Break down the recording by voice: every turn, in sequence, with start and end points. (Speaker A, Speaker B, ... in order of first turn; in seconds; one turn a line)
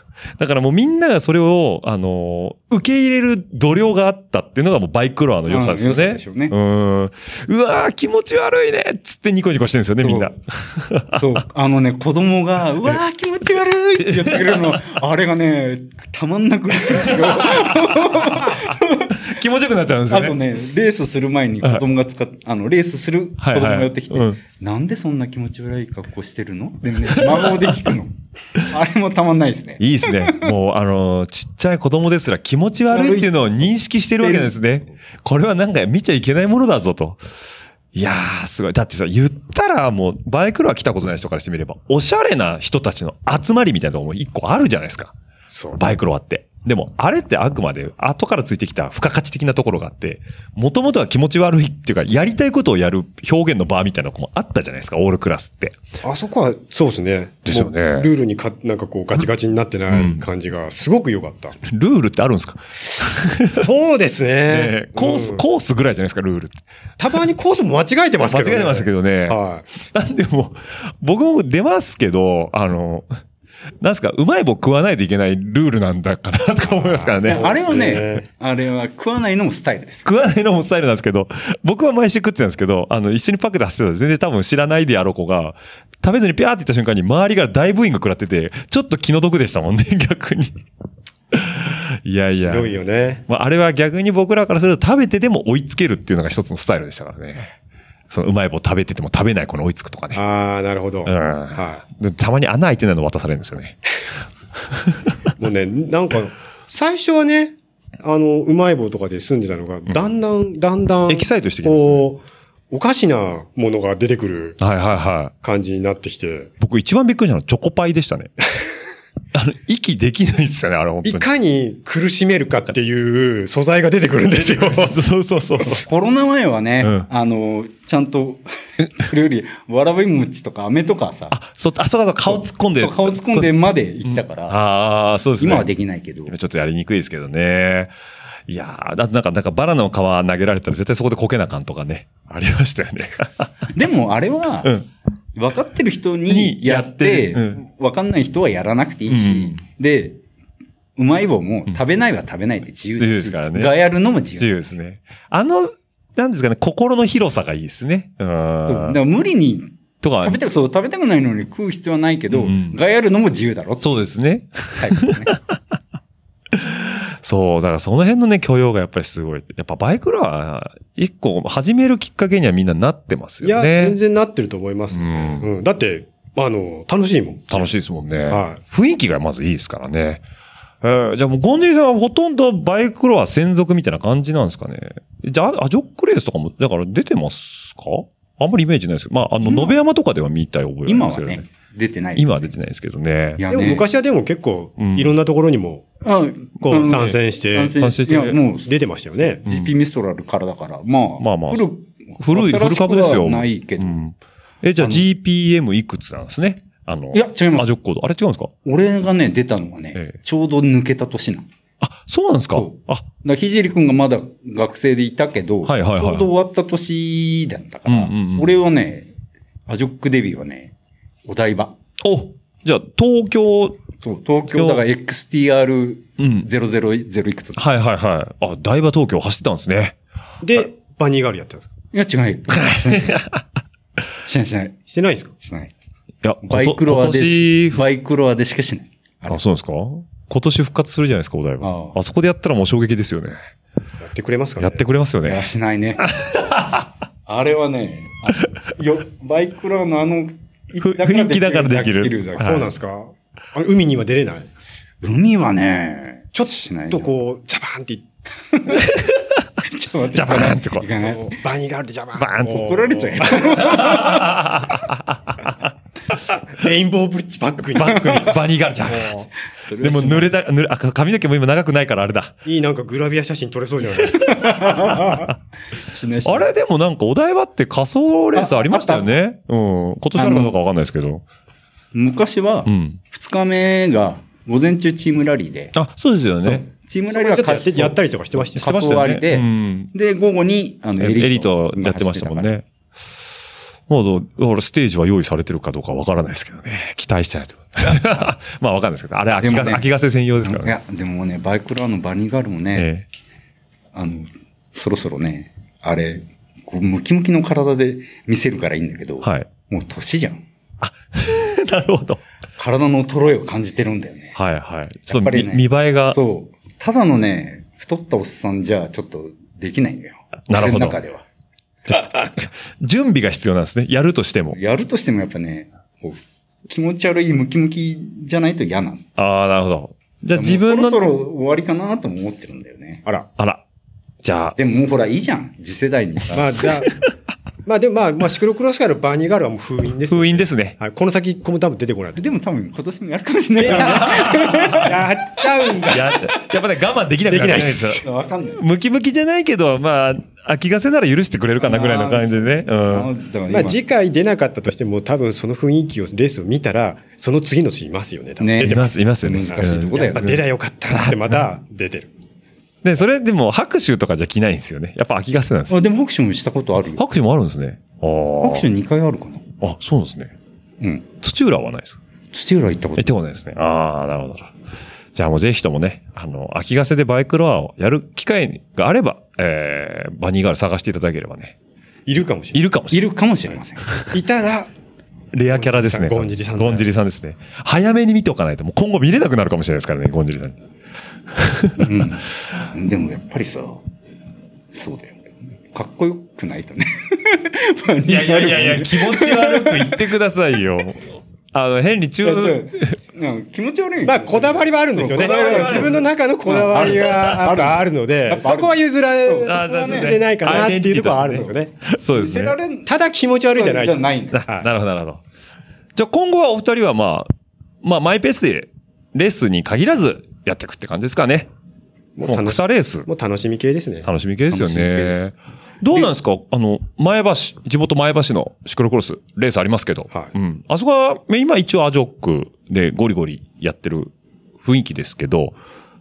Speaker A: 0.4-11.2
Speaker B: 5.5-6.5
Speaker B: 10.0-10.3
Speaker B: 11.1-19.2
Speaker A: 14.0-15.0
Speaker A: 16.9-20.4
Speaker B: 20.1-30.5
Speaker A: 23.4-24.4
Speaker A: 27.2-28.0
Speaker A: 29.8-37.2
Speaker B: 32.9-34.5
Speaker A: 37.9-45.1
Speaker C: 45.5-45.8
Speaker A: 45.8-55.8
Speaker C: 56.0-61.6
Speaker A: 57.5-58.1
Speaker A: 59.9-60.2
Speaker A: 61.7-63.7
Speaker C: 63.5-65.4
Speaker A: 64.5-66.6
Speaker C: 67.0-69.8
Speaker A: 68.2-69.4
Speaker A: 69.9-73.1
Speaker A: 73.8-77.6
Speaker C: 76.7-78.3
Speaker B: 77.3-80.1
Speaker A: 80.0-90.6
Speaker A: 91.3-92.7
Speaker C: 92.5-93.2
Speaker A: 93.3-97.6
Speaker A: 98.1-100.2
Speaker C: 100.1-101.8
Speaker A: 101.0-103.8
Speaker C: 105.4-114.6
Speaker A: 111.1-112.1
Speaker A: 114.6-115.3
Speaker C: 115.4-116.5
Speaker A: 116.6-118.3
Speaker A: 119.3-121.3
Speaker C: 121.0-125.0
Speaker A: 124.4-125.8
Speaker B: 125.8-131.4
Speaker A: 126.8-127.1
Speaker A: 131.3-133.5
Speaker B: 132.3-134.6
Speaker A: 134.1-135.7
Speaker B: 135.4-136.3
Speaker A: 136.3-137.9
Speaker A: 138.5-143.7
Speaker B: 143.7-144.7
Speaker B: 145.3-150.2
Speaker A: 146.3-147.6
Speaker A: 149.1-149.6
Speaker B: 151.0-154.6
Speaker A: 153.0-153.7
Speaker A: 154.4-159.0
Speaker B: 158.7-164.1
Speaker A: 160.0-160.4
Speaker A: 162.3-162.8
Speaker A: 163.8-165.6
Speaker B: 164.7-165.4
Speaker A: 166.5-174.0
Speaker C: 173.4-177.7
Speaker A: 174.9-175.5
Speaker A: 177.5-180.2
Speaker C: 178.3-178.6
Speaker A: 180.8-191.4
Speaker B: 189.4-189.8
Speaker B: 190.9-192.5
Speaker A: 192.2-193.4
Speaker B: 193.4-193.9
Speaker C: 193.5-195.9
Speaker A: 194.8-195.1
Speaker B: 196.0-198.7
Speaker C: 196.6-197.8
Speaker A: 197.8-198.4
Speaker C: 198.7-199.4
Speaker B: 199.4-204.0
Speaker A: 199.5-199.7
Speaker A: 201.2-201.7
Speaker A: 202.2-208.5
Speaker B: 204.8-205.0
Speaker B: 207.1-207.7
Speaker B: 208.7-211.5
Speaker A: 211.8-213.1
Speaker B: 212.5-219.1
Speaker A: 215.7-216.3
Speaker A: 217.9-218.6
Speaker B: 219.7-220.7
Speaker B: 221.3-221.8
Speaker A: 222.0-223.8
Speaker B: 224.0-227.7
Speaker A: 224.5-224.8
Speaker A: 226.2-226.5
Speaker A: 227.6-230.0
Speaker C: 230.4-231.7
Speaker B: 231.9-233.2
Speaker A: 232.6-233.4
Speaker B: 234.2-234.8
Speaker C: 234.9-235.3
Speaker B: 235.4-235.7
Speaker A: 236.2-237.8
Speaker B: 236.4-239.4
Speaker A: 239.3-243.4
Speaker B: 241.6-242.0
Speaker C: 244.0-244.8
Speaker A: 244.6-245.4
Speaker B: 245.2-246.1
Speaker A: 246.0-246.9
Speaker B: 247.3-252.7
Speaker A: 250.8-252.7
Speaker C: 252.4-254.5
Speaker B: 255.0-257.1
Speaker C: 256.3-258.0
Speaker B: 258.5-258.9
Speaker A: 258.9-259.4
Speaker B: 259.6-261.4
Speaker A: 260.1-260.9
Speaker C: 261.1-264.0
Speaker A: 262.2-262.8
Speaker B: 262.5-264.3
Speaker A: 263.3-265.5
Speaker C: 266.3-269.3
Speaker A: 267.8-272.4
Speaker B: 267.9-268.3
Speaker B: 269.7-270.3
Speaker C: 272.4-275.3
Speaker B: 274.2-276.5
Speaker A: 276.2-281.2
Speaker B: 278.4-279.1
Speaker B: 280.2-280.6
Speaker B: 281.9-285.7
Speaker A: 282.7-283.0
Speaker A: 285.8-286.6
Speaker B: 286.4-288.0
Speaker C: 287.1-289.0
Speaker B: 288.5-292.5
Speaker A: 288.6-289.9
Speaker A: 291.0-292.6
Speaker A: 293.9-300.8
Speaker B: 299.4-302.9
Speaker A: 302.8-303.1
Speaker B: 303.9-310.4
Speaker A: 309.2-309.5
Speaker A: 310.8-312.2
Speaker B: 312.6-314.4
Speaker A: 314.4-316.2
Speaker B: 315.1-321.2
Speaker A: 320.5-321.0
Speaker A: 321.9-324.6
Speaker B: 324.5-329.1
Speaker A: 329.2-331.1
Speaker B: 330.3-333.0
Speaker A: 333.4-333.6
Speaker A: 334.2-334.6
Speaker B: 334.6-336.6
Speaker C: 336.3-336.9
Speaker C: 337.7-342.3
Speaker A: 340.1-340.8
Speaker B: 342.2-345.1
Speaker C: 343.6-346.2
Speaker A: 343.8-344.8
Speaker A: 345.9-348.1
Speaker C: 347.3-348.0
Speaker B: 348.0-348.6
Speaker A: 348.6-353.1
Speaker B: 351.6-353.8
Speaker C: 353.5-359.0
Speaker B: 358.4-360.4
Speaker A: 358.6-361.4
Speaker C: 359.5-362.1
Speaker A: 362.8-365.8
Speaker B: 365.7-367.0
Speaker A: 367.0-368.7
Speaker B: 368.4-369.5
Speaker A: 369.6-370.3
Speaker B: 370.8-371.1
Speaker A: 371.2-372.0
Speaker B: 372.3-373.1
Speaker A: 373.0-374.5
Speaker A: 375.1-381.6
Speaker C: 382.1-382.6
Speaker A: 382.5-383.1
Speaker B: 382.9-383.9
Speaker C: 384.1-384.7
Speaker A: 385.3-390.6
Speaker C: 385.5-386.9
Speaker A: 391.3-391.9
Speaker B: 391.8-393.9
Speaker B: 394.7-400.0
Speaker A: 398.1-402.9
Speaker B: 402.2-410.6
Speaker C: 404.0-411.7
Speaker A: 405.1-406.0
Speaker A: 406.8-407.2
Speaker A: 409.5-412.6
Speaker B: 412.1-412.9
Speaker C: 412.9-414.7
Speaker B: 413.5-414.4
Speaker A: 414.3-415.2
Speaker A: 415.9-417.3
Speaker A: 417.8-421.5
Speaker C: 422.2-424.1
Speaker A: 422.2-423.1
Speaker A: 424.0-435.6
Speaker B: 424.5-425.3